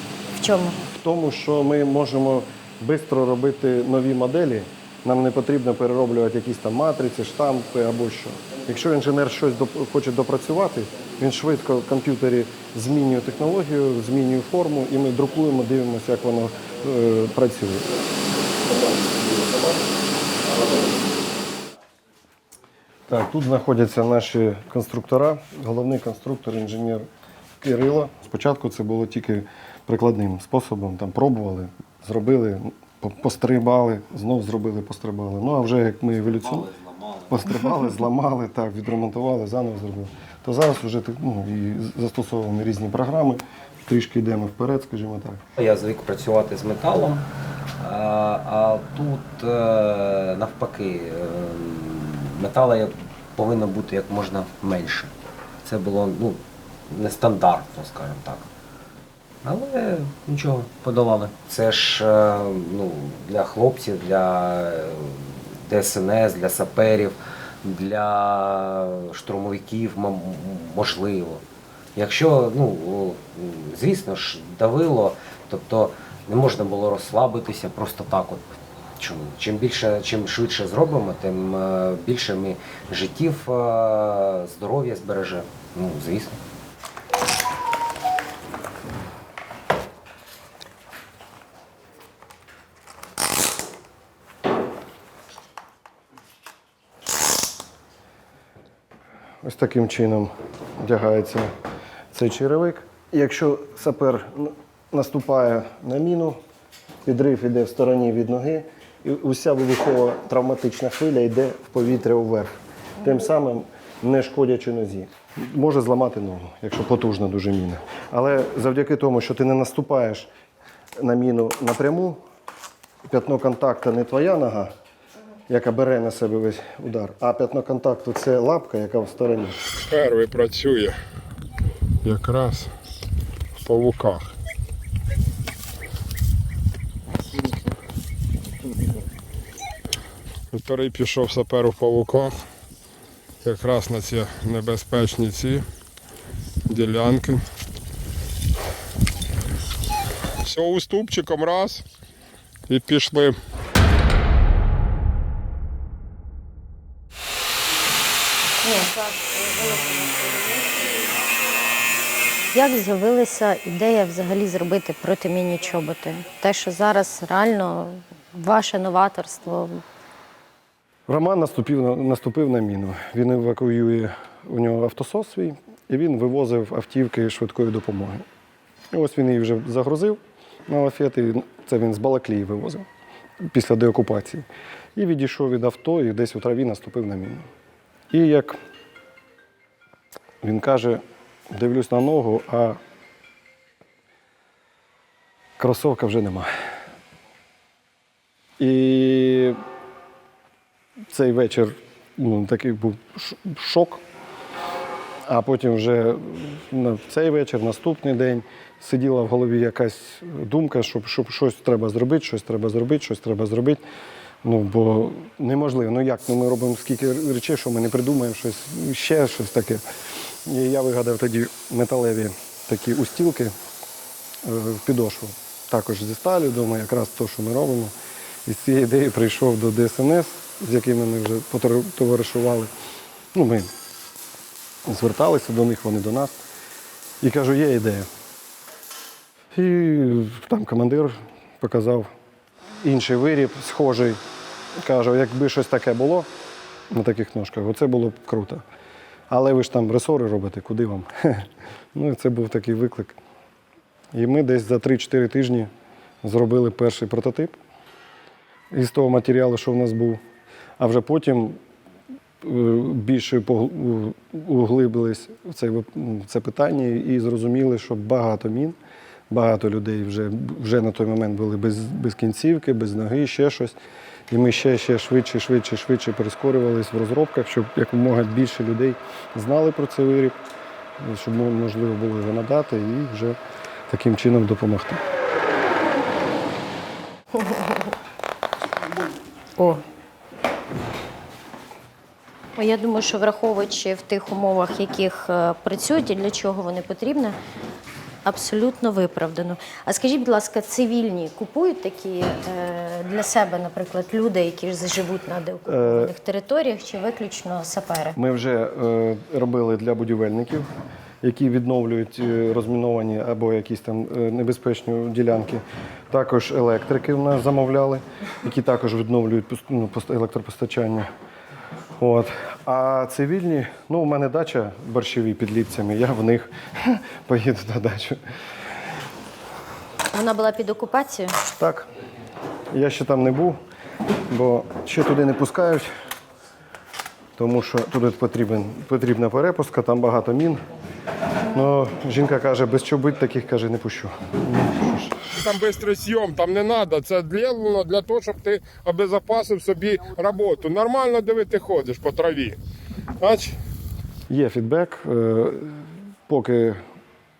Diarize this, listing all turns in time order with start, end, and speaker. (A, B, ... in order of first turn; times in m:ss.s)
0:00.4-0:00.8 A
0:00.9-0:17.9 B
0:23.1-0:27.1 B
0:27.6-0:36.7 B
0:37.2-0:45.4 B
0:45.6-0:47.2 C
0:47.8-0:55.1 C
0:55.6-0:58.5 C
0:59.4-1:11.4 C
1:12.0-1:26.4 C
1:39.4-1:41.5 B
1:42.1-1:46.4 B
1:47.0-2:00.3 B
2:01.0-2:02.2 B
2:03.0-2:04.7 B
2:05.5-2:09.6 B
2:09.9-2:11.0 D
2:12.0-2:12.7 D
2:13.6-2:14.3 D
2:20.5-2:22.4 D
2:23.4-2:25.6 D
2:26.7-2:27.4 D
2:30.4-2:31.8 D
2:32.7-2:33.4 D
2:38.6-2:41.0 A
2:42.5-2:49.8 A
2:51.1-2:58.2 B
2:58.9-3:02.9 B
3:03.4-3:07.5 B
3:08.1-3:08.6 B
3:10.4-3:12.8 B
3:15.6-3:16.5 B
3:18.6-3:19.6 B
3:21.1-3:24.0 B
3:25.3-3:33.8 B
3:34.4-3:39.8 B
3:40.4-3:43.5 B
3:44.4-3:47.9 B
3:48.4-3:52.7 B
3:53.3-3:53.7 B
3:54.8-3:56.4 B
3:57.2-3:58.1 B
3:59.5-4:02.1 B
4:02.8-4:04.2 B
4:04.8-4:06.3 B
4:06.9-4:08.6 B
4:09.3-4:13.2 B
4:14.1-4:15.7 B
4:16.2-4:17.6 B
4:18.7-4:20.2 B
4:20.8-4:21.6 B
4:22.4-4:28.8 B
4:29.3-4:33.8 B
4:34.3-4:40.4 B
4:41.0-4:43.4 B
4:43.9-4:45.0 B
4:47.3-4:47.9 A
4:49.6-4:49.8 A
4:52.6-4:57.4 A
4:58.2-5:08.2 A
5:05.7-5:06.1 B
5:08.2-5:10.7 B
5:11.2-5:21.1 B
5:22.0-5:28.2 B
5:30.1-5:31.3 A
5:31.5-5:31.9 B
5:32.7-5:33.6 B
5:34.3-5:35.9 B
5:37.4-5:40.6 B
5:41.5-5:45.2 B
5:45.3-5:52.6 D
5:53.2-5:53.6 D
5:54.3-5:56.8 B